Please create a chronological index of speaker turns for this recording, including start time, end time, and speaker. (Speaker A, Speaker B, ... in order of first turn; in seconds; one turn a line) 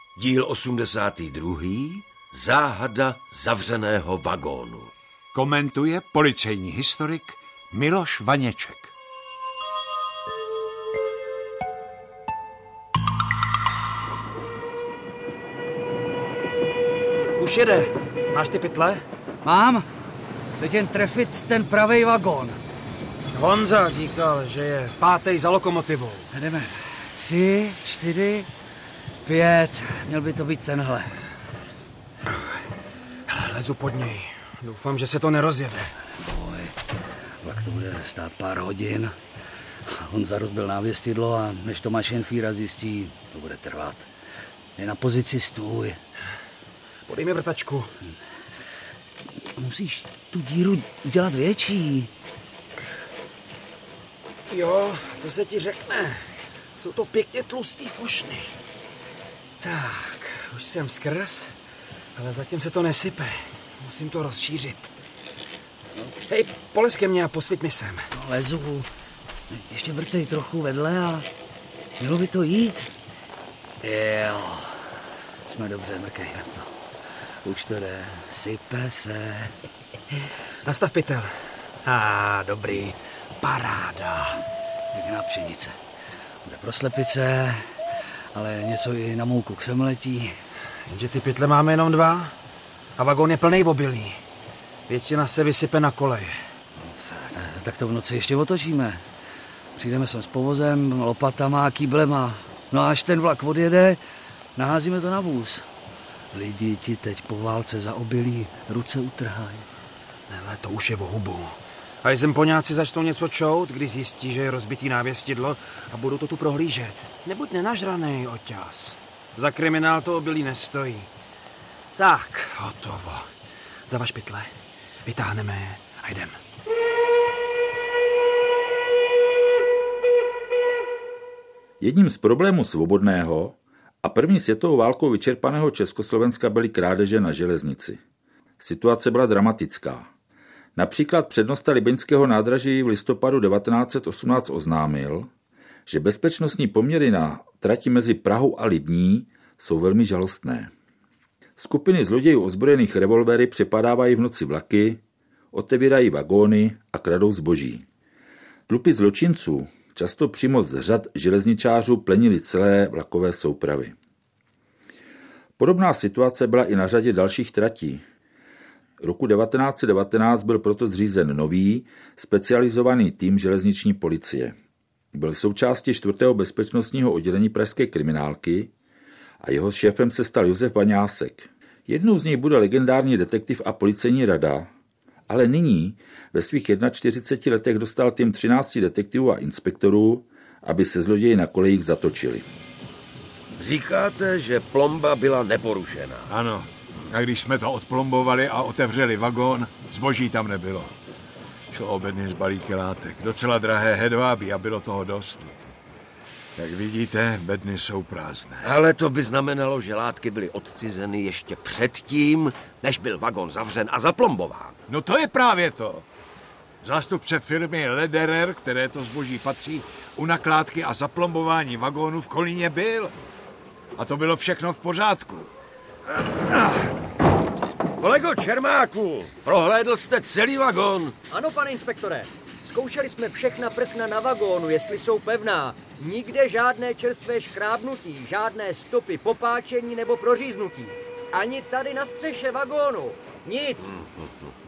Speaker A: 0.2-4.9
Speaker B: 5.3-8.9
Speaker C: 17.4-19.0
Speaker D: 19.4-19.9
Speaker D: 20.6-22.6
Speaker C: 23.3-26.3
Speaker D: 26.3-28.5
Speaker D: 29.2-31.2
Speaker C: 33.3-35.9
Speaker D: 36.2-36.8
Speaker D: 37.4-39.2
Speaker D: 39.9-44.1
Speaker D: 44.8-46.0
Speaker C: 47.1-47.9
Speaker D: 49.6-52.1
Speaker C: 54.5-58.5
Speaker C: 59.6-61.5
Speaker C: 62.2-64.9
Speaker C: 66.3-68.1
Speaker D: 68.1-68.9
Speaker D: 69.5-71.3
Speaker D: 72.0-72.9
Speaker D: 73.8-76.8
Speaker D: 77.4-79.6
Speaker C: 80.7-81.4
Speaker D: 81.9-82.9
Speaker C: 83.4-84.3
Speaker D: 83.7-84.0
Speaker D: 84.9-85.8
Speaker D: 86.4-87.8
Speaker D: 88.3-90.3
Speaker C: 90.9-92.3
Speaker C: 93.0-94.2
Speaker C: 94.9-96.3
Speaker D: 96.8-99.0
Speaker D: 99.8-104.0
Speaker D: 104.6-105.7
Speaker D: 106.3-109.7
Speaker C: 110.3-121.1
Speaker C: 122.0-123.3
Speaker C: 123.9-124.5
Speaker C: 125.0-126.4
Speaker E: 131.8-138.0
Speaker E: 138.6-140.1
Speaker E: 140.8-145.3
Speaker E: 145.9-150.7
Speaker E: 151.6-155.0
Speaker E: 155.5-157.8
Speaker E: 158.7-163.9
Speaker E: 165.6-168.0
Speaker E: 169.0-174.6
Speaker E: 175.1-178.7
Speaker E: 179.4-184.7
Speaker E: 185.3-192.5
Speaker A: 193.6-196.3
Speaker B: 196.3-200.9
Speaker B: 201.7-205.6
Speaker B: 206.6-208.7
Speaker A: 208.6-214.8
Speaker B: 214.9-216.1
Speaker B: 216.8-223.1
Speaker B: 224.0-225.5
Speaker A: 228.0-231.2
Speaker F: 231.3-243.9
Speaker A: 243.8-244.5